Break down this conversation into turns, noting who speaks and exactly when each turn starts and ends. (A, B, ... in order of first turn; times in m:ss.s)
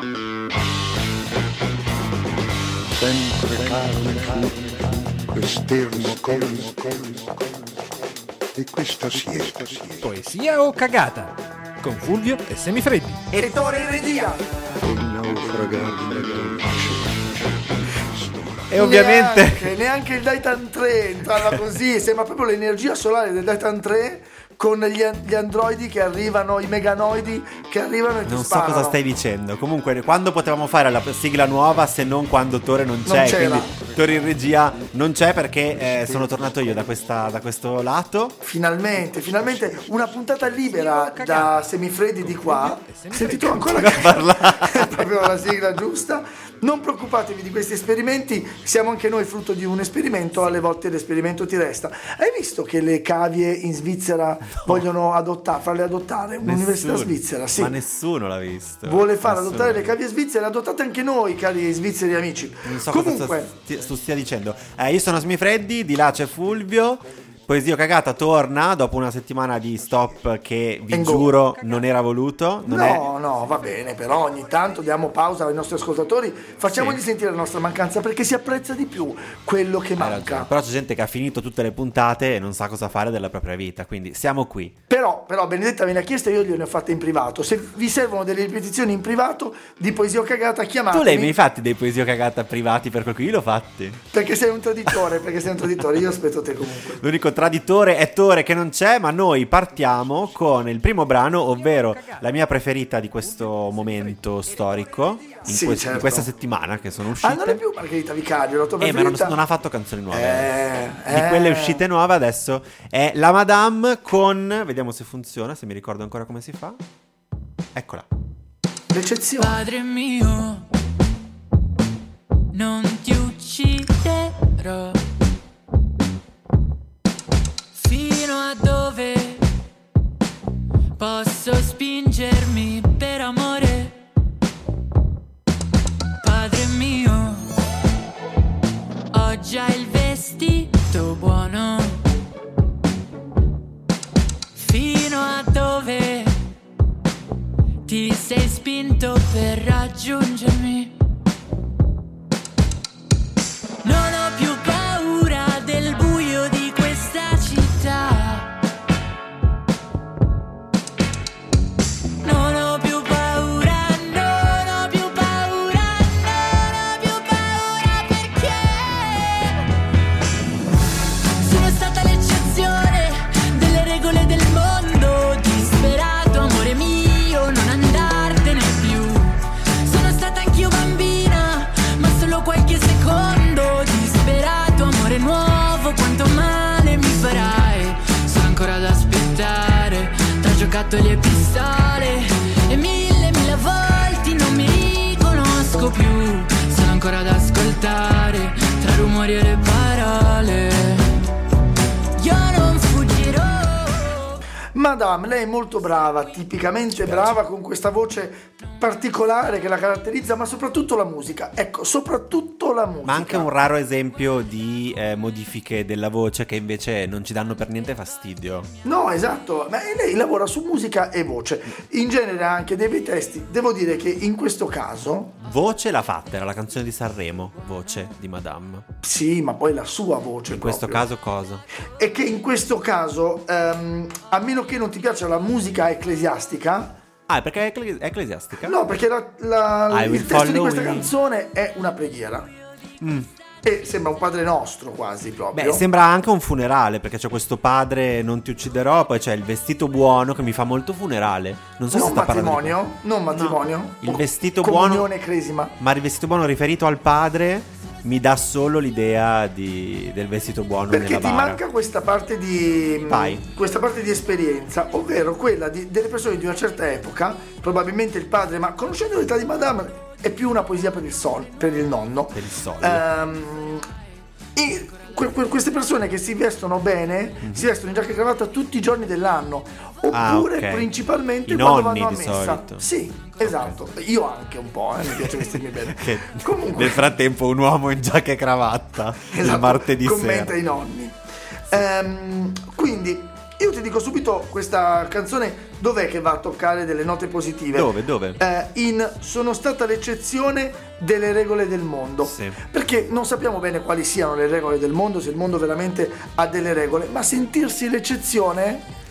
0:02.9-0:07.6 A
0:08.6-0:10.0 A
0:10.0-0:13.2 B
0:13.3-0:14.3 C
0:13.4-0:14.6 D
0:14.8-0:18.6 A
0:18.7-0:19.7 C
0:18.7-0:29.0 D
0:28.3-0:38.4 C
0:33.1-0:33.8 D
0:38.4-0:57.8 D
0:40.4-0:44.1 B
0:43.8-0:45.2 C
0:54.5-0:54.8 C
0:56.4-1:00.0 C
0:58.8-1:03.5 D
1:02.6-1:13.1 C
1:10.9-1:11.4 D
1:12.6-1:20.5 D
1:16.7-1:17.0 C
1:20.0-1:24.8 C
1:24.9-1:31.4 D
1:30.9-1:34.0 C
1:34.1-1:37.0 D
1:37.0-1:47.6 C
1:41.9-1:42.3 B
1:43.2-1:44.2 B
1:45.4-1:46.3 D
1:47.2-1:49.4 D
1:48.8-1:50.6 C
1:50.1-1:51.8 D
1:51.1-1:56.8 C
1:57.7-1:58.1 C
1:58.9-1:59.6 D
1:59.4-2:00.7 E
2:02.5-2:05.0 E
2:07.8-2:09.5 E
2:11.0-2:14.0 E
2:16.2-2:17.5 E
2:19.1-2:22.0 E
2:24.6-2:26.4 E
2:27.8-2:31.0 E
2:33.8-2:38.5 E
2:42.2-2:49.7 E
2:51.4-3:21.2 E
3:22.2-3:24.4 E
3:24.8-3:33.5 D
3:27.0-3:27.4 C
3:33.0-3:38.7 C
3:38.8-3:45.4 D
3:45.4-3:48.9 C
3:49.0-3:51.1 D
3:50.5-3:51.6 C
3:52.0-3:57.0 D
3:57.3-3:58.8 C
3:58.6-4:02.5 D
3:59.9-4:01.1 C
4:03.0-4:03.3 C
4:03.6-4:05.8 D
4:05.5-4:12.8 C
4:11.9-4:15.7 D
4:13.3-4:15.1 C
4:15.8-4:21.6 C
4:20.9-4:33.9 D
4:23.1-4:23.4 C
4:32.3-4:33.0 C
4:34.6-4:47.1 D
4:40.1-4:40.9 C
4:41.5-4:42.8 C
4:43.4-4:43.8 C
4:45.2-4:50.5 C
4:49.3-5:08.9 D
4:57.7-4:58.4 C
5:02.2-5:02.6 C